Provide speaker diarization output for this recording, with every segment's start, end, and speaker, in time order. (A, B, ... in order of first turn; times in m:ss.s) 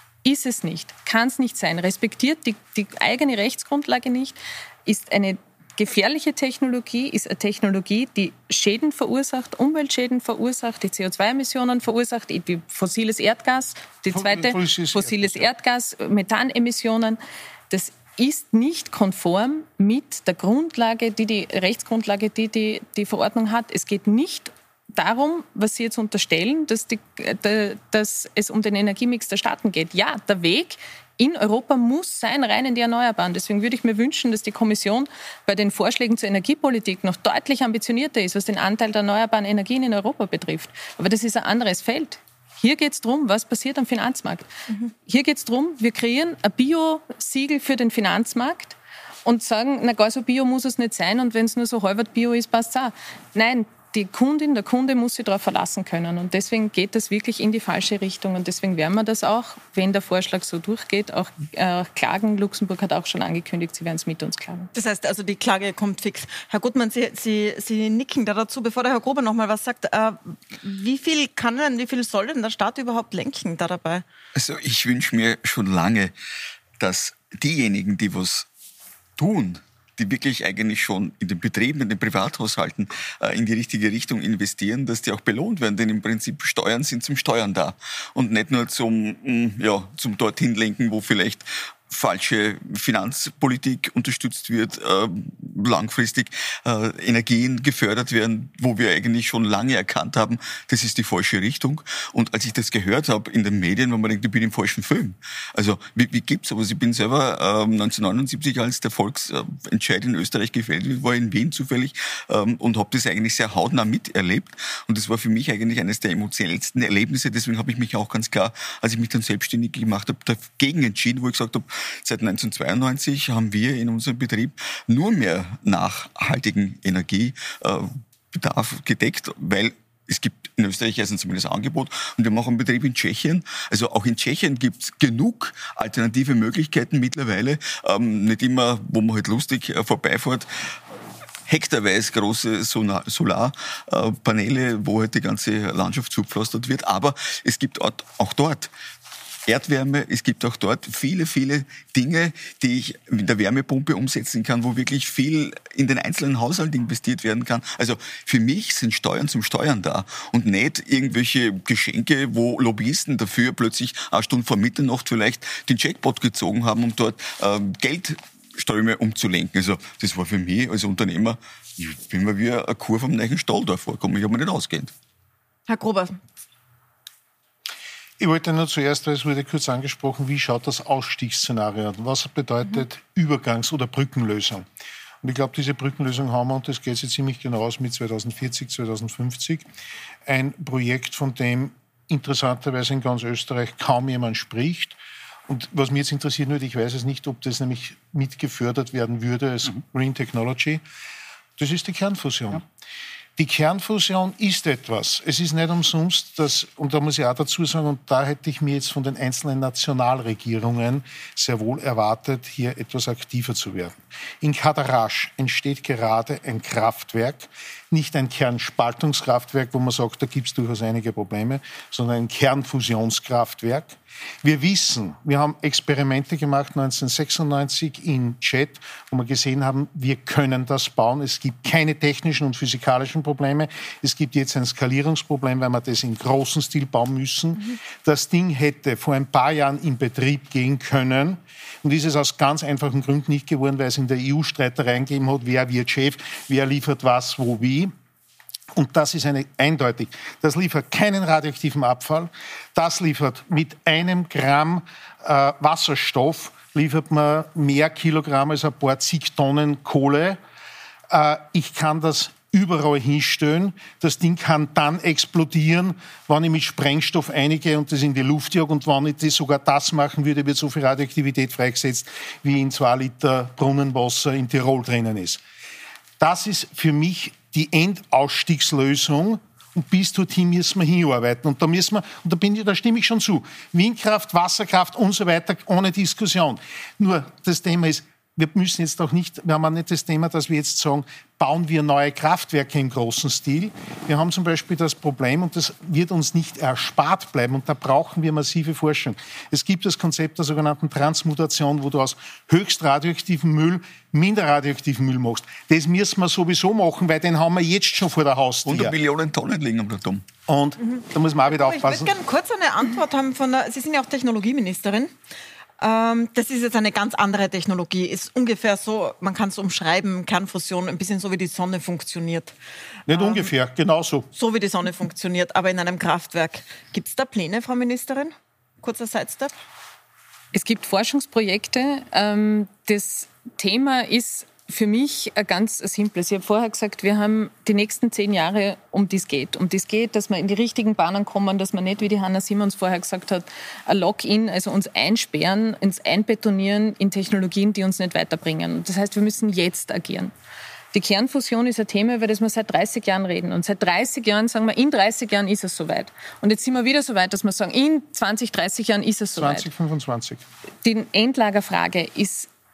0:00.2-1:04.7 A
0:14.1-0:15.5 B
1:04.7-1:14.0 C
1:14.4-1:16.1 D
1:16.8-1:18.5 D
1:19.2-2:20.5 D
2:21.5-2:28.7 D
2:29.5-2:54.9 D
2:55.7-2:56.2 C
2:58.2-3:04.7 B
3:05.2-3:09.7 B
3:10.3-3:20.8 B
3:21.6-3:22.6 B
3:23.4-4:07.9 B
4:08.8-4:20.4 B
4:21.1-4:35.4 B
4:36.2-5:09.0 B
5:08.7-5:10.3 D
5:10.5-5:12.1 B
5:11.5-5:15.1 C
5:15.8-5:22.5 C
5:23.1-5:24.3 B
5:23.1-5:23.5 C
5:24.3-5:29.5 C
5:30.5-5:50.3 A
5:50.9-5:59.7 A
5:59.4-6:00.4 B
6:00.8-6:02.5 A